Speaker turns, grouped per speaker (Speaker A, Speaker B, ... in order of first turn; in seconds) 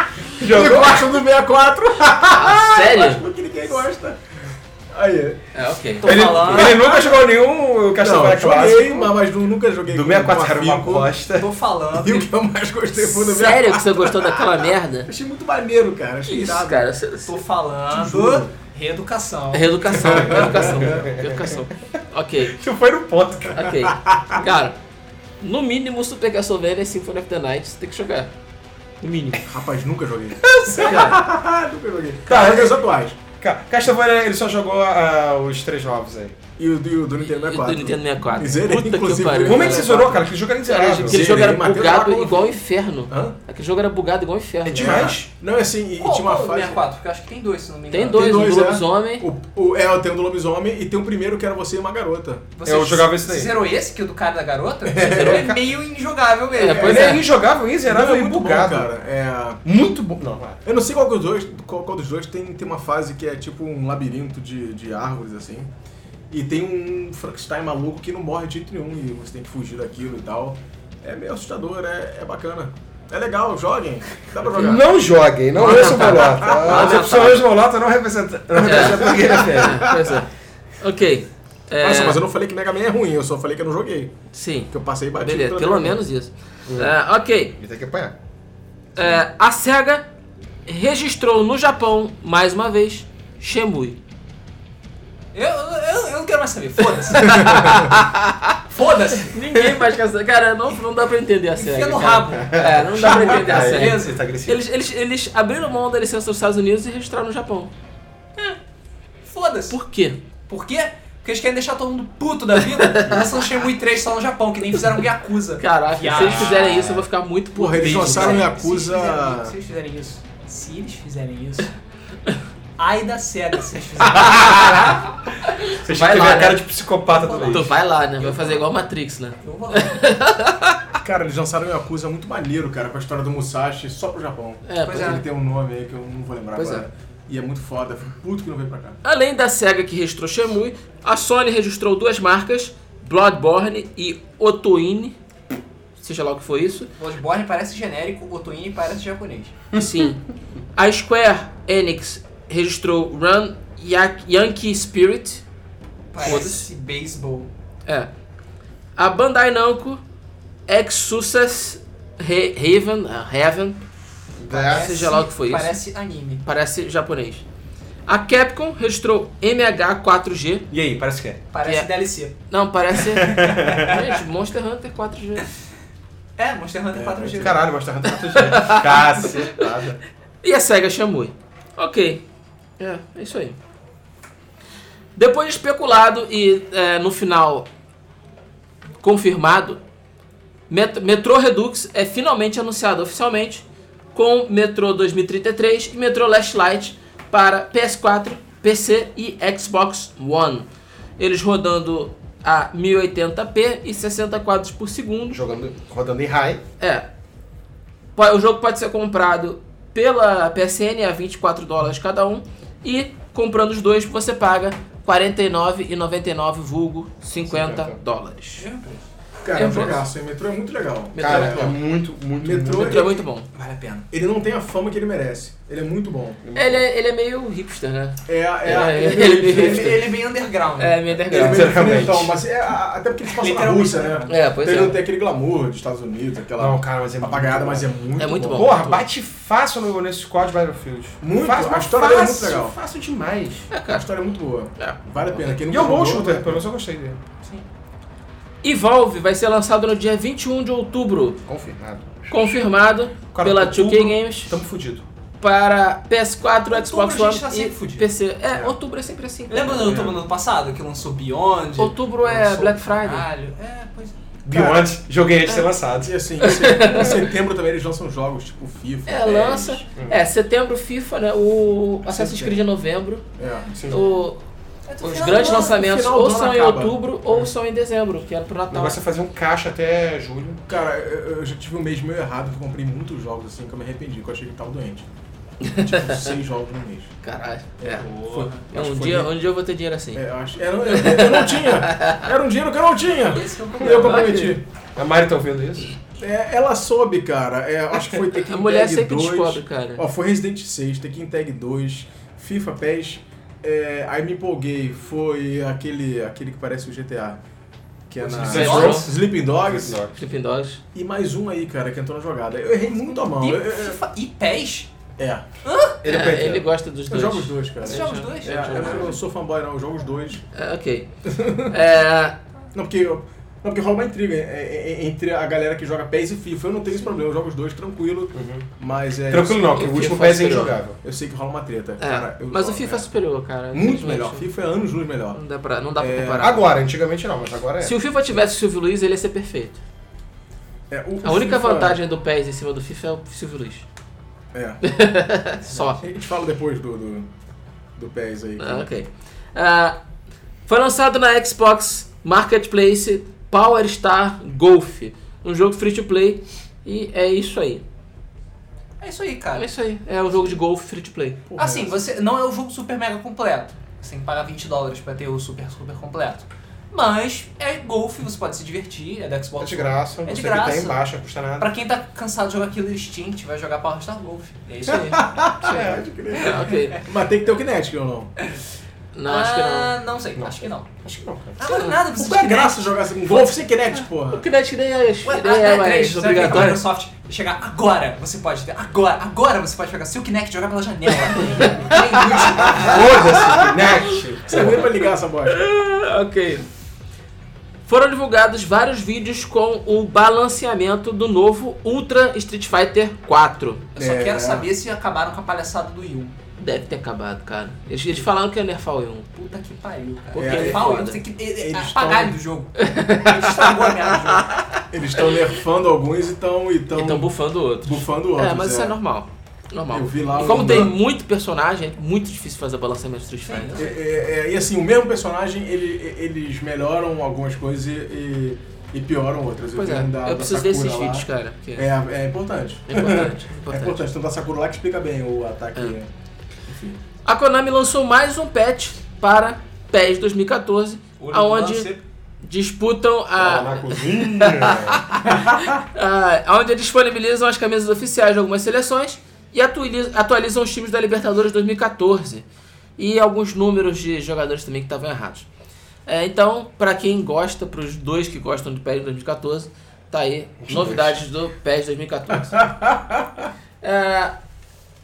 Speaker A: 0.4-1.2, 6.0-9.2, 9.8-11.5, 20.0-21.6, 22.4-23.8, 30.5-31.2, 32.2-32.8, 33.4-36.4, 39.4-41.4, 44.6-45.3, 52.6-53.5, 55.1-55.7, 56.8-58.9, 59.6-60.6, 74.5-80.0, 86.7-86.9, 87.5-88.1, 102.4-104.6, 116.1-117.0, 124.0-125.0, 125.7-127.7, 149.7-150.1, 164.4-165.0, 170.7-171.4, 173.0-173.9, 177.4-180.0, 205.3-206.6, 217.5-217.9, 221.2-223.1, 226.4-226.8, 231.3-232.4, 236.6-237.9, 238.5-243.7, 245.6-247.2, 251.4-252.5, 253.3-255.0, 264.4-266.1, 273.7-274.0, 278.7-280.6, 294.9-296.0, 308.2-310.2, 316.0-316.7, 328.3-328.7, 329.3-331.0, 336.4-337.9, 369.6-371.7, 375.6-376.2, 380.4-381.7, 392.7-394.8, 443.4-445.1
Speaker B: 0.4-4.2, 4.9-5.4, 6.1-7.2, 8.0-11.1, 11.9-16.9, 17.9-18.5, 19.9-21.1, 23.9-24.4, 29.4-33.2, 36.6-40.2, 41.0-43.4, 44.7-46.8, 48.0-52.5, 54.8-55.5, 56.7-57.2, 57.9-59.6, 60.6-65.7, 66.3-74.9, 75.6-77.2, 78.6-80.2, 81.8-84.1, 84.7-86.0, 97.2-97.8, 117.5-119.5, 131.0-139.0, 176.9-177.6, 219.4-221.8, 222.4-223.2, 224.1-226.4, 228.2-230.1, 231.3-238.8, 241.2-242.7, 243.9-246.6, 259.7-260.2, 264.5-264.9, 266.0-269.8, 272.1-272.6, 273.4-273.7, 275.2-277.0, 280.7-285.1, 285.6-287.1, 287.8-289.3, 290.1-294.6, 296.2-307.4, 308.1-310.0, 310.9-314.0, 315.2-315.4, 317.1-320.4, 321.3-321.8, 322.7-329.9, 331.0-333.1, 333.7-335.4, 336.0-336.6, 340.9-342.0, 344.5-344.8, 345.8-347.3, 347.9-348.9, 361.4-362.0, 374.9-378.3, 382.1-384.4, 392.4-392.9, 394.4-395.6, 404.0-404.7, 410.3-411.1, 411.6-412.4, 414.9-418.9, 419.9-421.0, 423.7-436.1, 436.7-437.0, 460.7-461.1, 462.5-463.5
Speaker C: 2.3-3.2, 5.5-6.1, 13.0-15.1, 16.2-17.4, 19.5-22.6, 23.5-24.8, 25.4-28.3, 29.0-29.4, 37.2-45.1, 47.9-49.3, 56.5-57.3, 75.5-77.5, 78.6-82.2, 84.3-87.5, 89.0-90.0, 90.7-94.0, 97.1-98.6, 99.2-107.7, 109.7-110.2, 112.7-113.3, 115.6-118.5, 125.5-126.6, 127.5-130.9, 134.7-135.2, 136.6-136.8, 139.0-145.2, 146.0-146.9, 149.8-150.2, 150.8-155.4, 156.2-156.6, 158.9-160.0, 160.7-163.8, 164.6-165.7, 166.4-167.4, 168.1-170.7, 172.5-175.4, 178.3-179.7, 180.4-182.2, 182.8-183.6, 185.2-187.7, 189.0-189.8, 190.7-200.7, 201.2-205.4, 206.8-207.1, 208.2-218.7, 219.5-220.0, 221.1-221.8, 222.8-223.5, 226.5-230.1, 230.8-232.1, 234.3-235.0, 238.2-239.0, 243.7-244.1, 244.8-245.4, 248.6-251.4, 252.3-254.5, 255.4-259.9, 261.8-263.3, 266.4-267.3, 269.1-273.2, 273.9-274.4, 275.0-279.0, 285.6-286.3, 287.2-288.1, 288.7-290.2, 290.9-292.3, 293.8-294.6, 298.4-300.0, 308.4-309.1, 310.1-310.8, 316.0-319.1, 320.5-321.1, 321.6-322.4, 329.7-330.8, 332.0-334.4, 335.3-336.7, 337.8-339.8, 341.2-343.8, 344.8-346.0, 348.6-350.0, 350.7-357.8, 359.6-361.4, 374.9-375.2, 376.3-377.0, 379.1-379.9, 384.3-386.8, 391.4-396.6, 397.9-403.9, 406.6-409.3, 410.3-411.2, 412.8-414.8, 416.9-423.8, 429.7-431.9, 432.9-434.0, 437.2-441.9, 442.4-452.4, 453.0-455.5, 456.1-462.7, 463.8-464.4
Speaker D: 6.0-7.0, 11.3-12.3, 17.2-20.1, 46.0-48.2, 52.5-57.1, 95.3-97.9, 98.7-99.3, 101.5-104.2, 109.2-109.8, 110.5-116.9, 117.8-121.7, 122.8-125.0, 127.1-128.6, 129.4-130.1, 134.8-135.2, 147.0-149.5, 156.1-157.5, 164.5-166.4, 171.5-172.3, 173.4-174.1, 176.4-177.7, 218.6-219.0, 223.5-224.1, 229.4-231.0, 233.3-234.8, 256.7-258.1, 259.5-264.1, 274.9-275.8, 288.0-288.6, 293.2-294.4, 308.3-309.2, 312.9-314.9, 315.6-316.0, 317.8-319.1, 359.0-359.7, 361.6-371.0, 371.6-375.3, 379.2-380.9, 381.6-383.5, 385.2-393.3, 403.9-406.4, 409.3-414.6, 423.4-424.0, 441.2-442.0